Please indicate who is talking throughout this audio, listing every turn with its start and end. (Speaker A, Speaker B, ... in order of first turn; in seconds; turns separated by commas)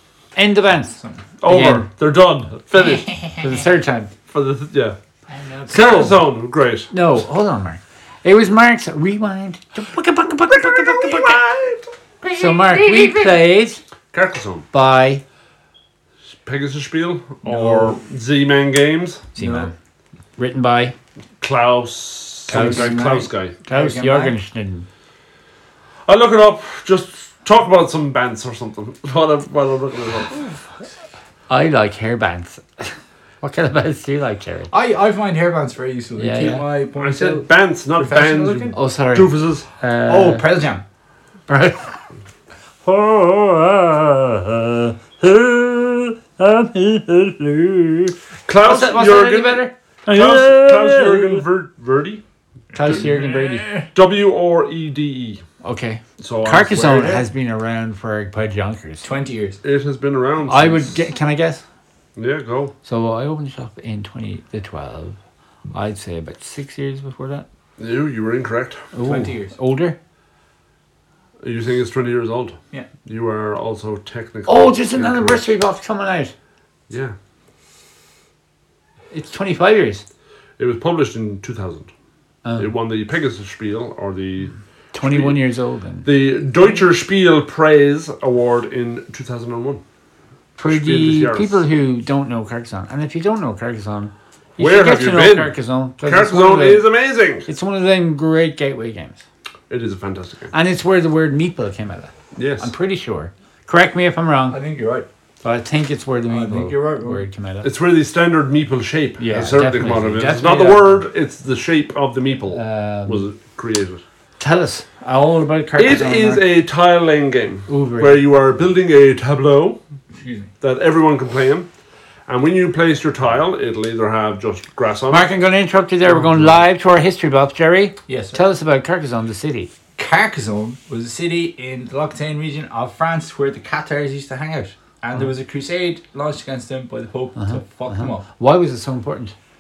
Speaker A: 0.4-1.9, Speaker B: 1.0-1.2, Speaker C: 1.4-3.1, Speaker B: 2.8-3.5, Speaker A: 3.4-4.1, Speaker C: 4.3-5.0, Speaker B: 5.3-6.2, Speaker C: 5.7-6.9, Speaker A: 5.7-6.2, Speaker A: 6.9-11.4, Speaker C: 10.5-11.9, Speaker B: 12.2-13.4, Speaker A: 12.3-13.8, Speaker C: 14.1-14.7, Speaker A: 14.7-15.2, Speaker C: 16.4-19.2, Speaker B: 17.4-18.0, Speaker A: 19.4-19.7, Speaker B: 19.4-19.7, Speaker A: 20.4-20.9, Speaker C: 21.4-23.5, Speaker B: 22.5-24.4, Speaker A: 22.5-24.9, Speaker C: 26.1-30.5, Speaker A: 31.5-34.7, Speaker B: 34.7-38.7, Speaker A: 36.2-36.6, Speaker C: 37.0-39.7, Speaker A: 38.7-40.5, Speaker B: 40.1-40.8, Speaker A: 41.5-42.0, Speaker A: 42.8-51.5, Speaker C: 48.5-52.2, Speaker A: 52.7-53.8, Speaker B: 52.8-53.9, Speaker C: 53.9-55.4, Speaker A: 55.6-59.1, Speaker C: 56.2-57.2, Speaker B: 56.8-57.2, Speaker B: 59.0-59.6, Speaker C: 59.6-61.0, Speaker A: 60.5-61.6, Speaker C: 62.2-62.7, Speaker A: 62.9-65.2, Speaker A: 65.7-67.5, Speaker C: 67.8-68.9, Speaker A: 68.9-70.0, Speaker B: 69.0-69.6, Speaker C: 71.4-75.5, Speaker A: 74.5-76.3, Speaker C: 76.9-77.2, Speaker A: 79.1-80.0, Speaker C: 80.6-81.9, Speaker A: 82.4-82.7, Speaker C: 82.6-85.4, Speaker A: 84.9-86.1, Speaker C: 86.0-89.8, Speaker A: 90.6-96.9, Speaker C: 90.7-91.6, Speaker C: 94.6-97.5, Speaker A: 97.5-99.2, Speaker C: 99.7-100.5, Speaker A: 100.5-104.6, Speaker C: 102.4-102.7, Speaker B: 104.5-105.1, Speaker A: 105.4-107.7, Speaker B: 106.3-107.2, Speaker C: 107.6-114.0, Speaker A: 109.2-111.0, Speaker A: 112.5-113.2, Speaker A: 114.4-116.4, Speaker C: 115.8-119.8, Speaker A: 117.7-118.2, Speaker B: 120.1-120.5, Speaker C: 120.6-121.7, Speaker C: 122.3-125.3, Speaker A: 125.1-129.7, Speaker B: 128.1-128.4, Speaker B: 130.0-138.2, Speaker A: 137.4-139.3